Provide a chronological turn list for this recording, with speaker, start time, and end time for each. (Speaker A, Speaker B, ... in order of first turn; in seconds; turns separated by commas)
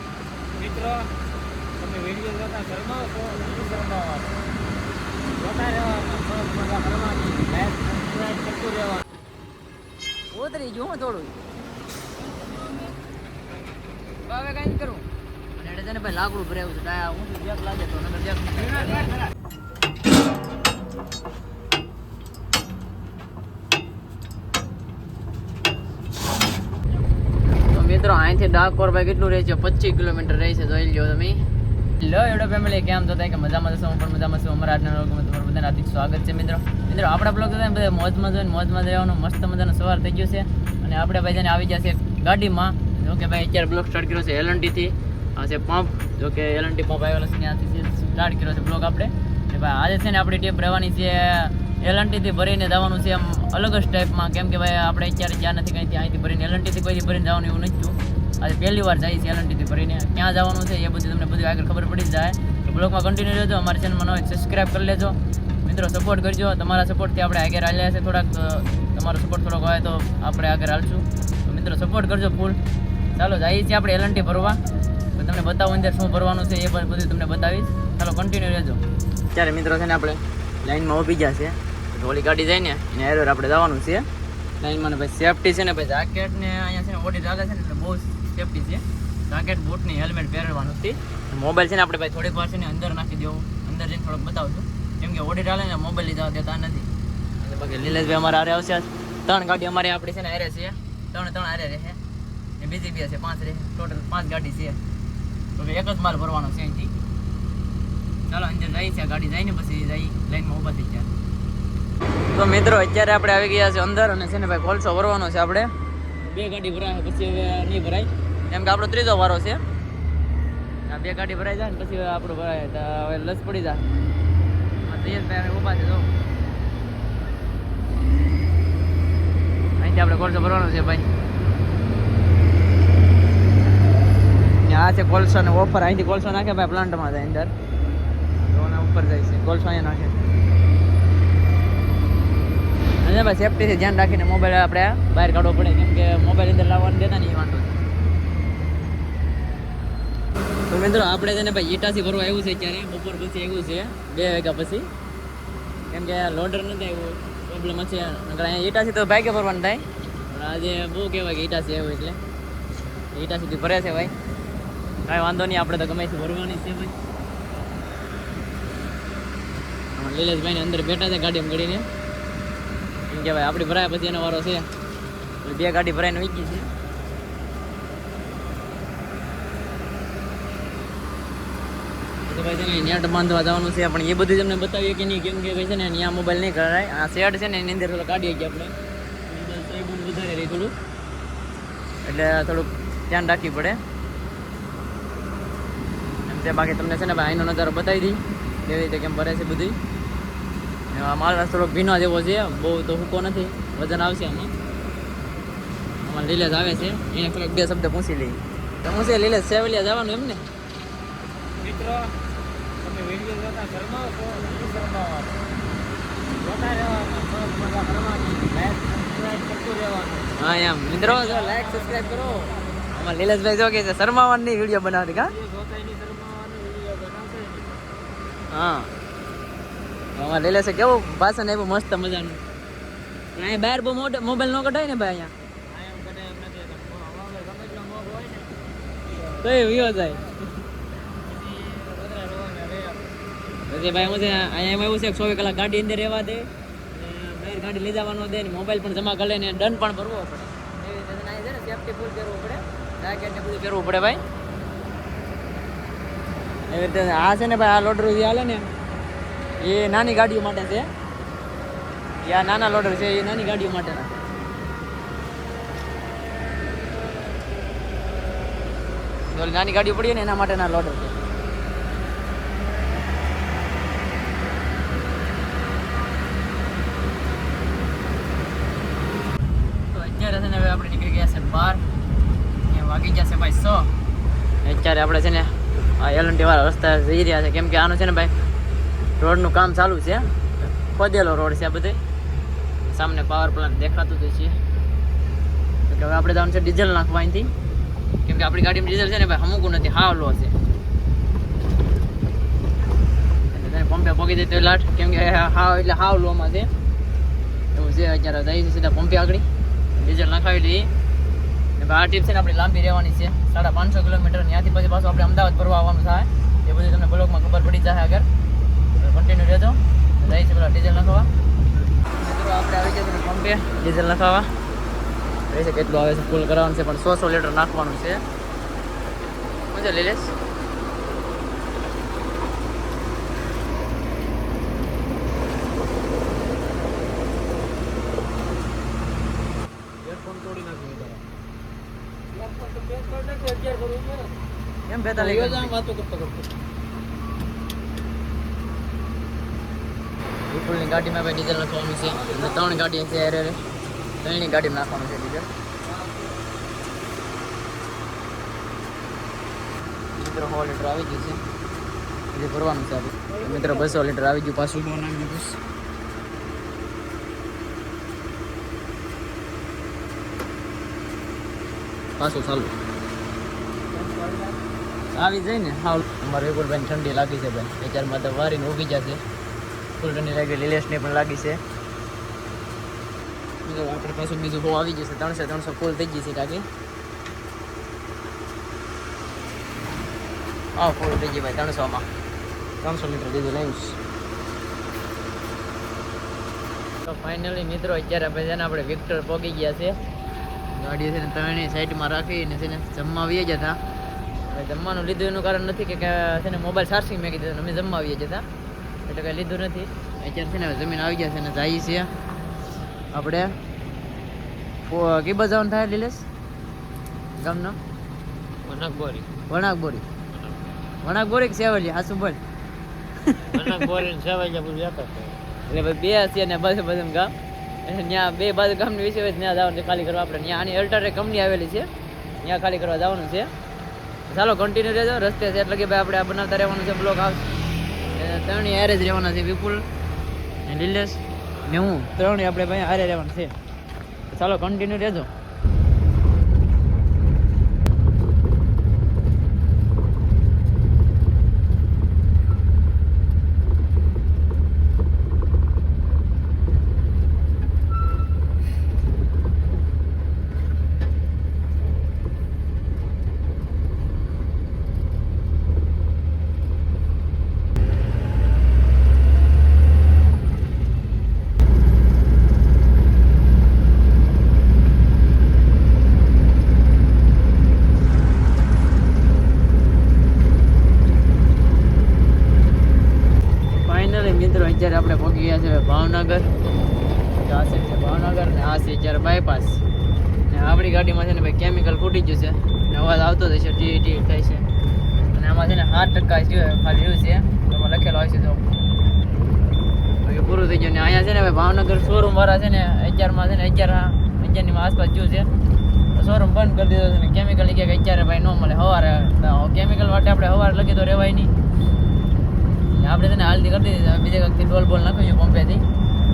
Speaker A: 0.6-1.1, Speaker A: 1.8-3.4, Speaker B: 3.3-4.3, Speaker A: 5.4-9.0, Speaker B: 10.3-11.4, Speaker B: 14.3-19.1, Speaker B: 27.5-31.4, Speaker B: 32.0-72.6, Speaker B: 73.2-74.6, Speaker B: 75.2-78.8, Speaker B: 79.3-84.1, Speaker B: 84.6-102.0, Speaker B: 102.6-104.8, Speaker B: 105.6-106.9, Speaker B: 108.3-111.1, Speaker B: 112.3-119.6, Speaker B: 120.9-123.9, Speaker B: 124.8-126.1, Speaker B: 129.8-131.1, Speaker B: 134.3-137.5, Speaker B: 138.4-140.2, Speaker B: 143.0-147.8, Speaker B: 150.7-154.9, Speaker B: 155.9-162.2, Speaker B: 163.1-164.1, Speaker B: 165.1-166.9, Speaker B: 169.9-171.8, Speaker B: 173.1-174.7, Speaker B: 175.4-176.7, Speaker B: 182.2-188.8, Speaker B: 189.3-190.8, Speaker B: 192.0-193.8, Speaker B: 196.2-199.8, Speaker B: 200.9-204.5, Speaker B: 206.0-210.4, Speaker A: 211.6-212.1, Speaker A: 212.8-214.5, Speaker B: 214.4-215.3, Speaker A: 216.4-220.3, Speaker B: 220.3-225.3, Speaker A: 221.0-222.8, Speaker A: 225.2-227.8, Speaker B: 228.5-228.9, Speaker B: 230.1-232.4, Speaker B: 233.3-235.3, Speaker A: 235.7-238.7, Speaker B: 239.2-240.4, Speaker A: 241.2-243.1, Speaker B: 243.7-254.2, Speaker B: 256.7-258.7, Speaker B: 259.6-260.9, Speaker B: 262.2-264.2, Speaker B: 269.3-271.1, Speaker B: 279.9-281.8, Speaker B: 282.6-283.9, Speaker B: 284.6-288.4, Speaker B: 289.2-292.0, Speaker B: 292.8-294.6, Speaker B: 295.9-297.5, Speaker B: 298.2-300.6, Speaker B: 303.5-306.7, Speaker B: 307.7-310.9, Speaker B: 311.8-318.3, Speaker B: 319.0-321.3, Speaker B: 322.2-324.5, Speaker B: 325.5-328.2, Speaker B: 329.7-330.3, Speaker A: 340.0-341.2, Speaker A: 342.3-344.3, Speaker B: 344.9-345.8, Speaker A: 345.1-346.4, Speaker B: 350.5-353.6, Speaker B: 354.2-355.5, Speaker B: 360.1-361.4, Speaker B: 362.3-365.6, Speaker B: 372.2-372.8, Speaker A: 373.9-374.5, Speaker B: 375.1-379.2, Speaker B: 380.0-381.6, Speaker B: 383.6-386.7, Speaker B: 390.8-392.1, Speaker B: 392.8-394.0, Speaker B: 397.0-400.0, Speaker B: 400.7-403.8, Speaker B: 404.5-408.4, Speaker B: 409.1-412.1, Speaker B: 413.1-413.6, Speaker B: 414.8-416.2, Speaker B: 417.4-417.8, Speaker A: 418.6-419.3, Speaker B: 419.5-420.1, Speaker B: 421.0-422.4, Speaker B: 423.2-423.9, Speaker A: 423.5-425.3, Speaker B: 425.7-427.3, Speaker B: 427.9-431.9, Speaker B: 432.4-433.5, Speaker B: 434.3-437.4, Speaker B: 438.1-439.8, Speaker B: 440.6-443.5, Speaker B: 444.3-445.3, Speaker B: 483.8-486.5, Speaker B: 487.4-489.8, Speaker B: 490.5-494.7, Speaker B: 495.3-498.6, Speaker B: 500.2-505.5, Speaker B: 506.1-511.5, Speaker B: 513.0-515.8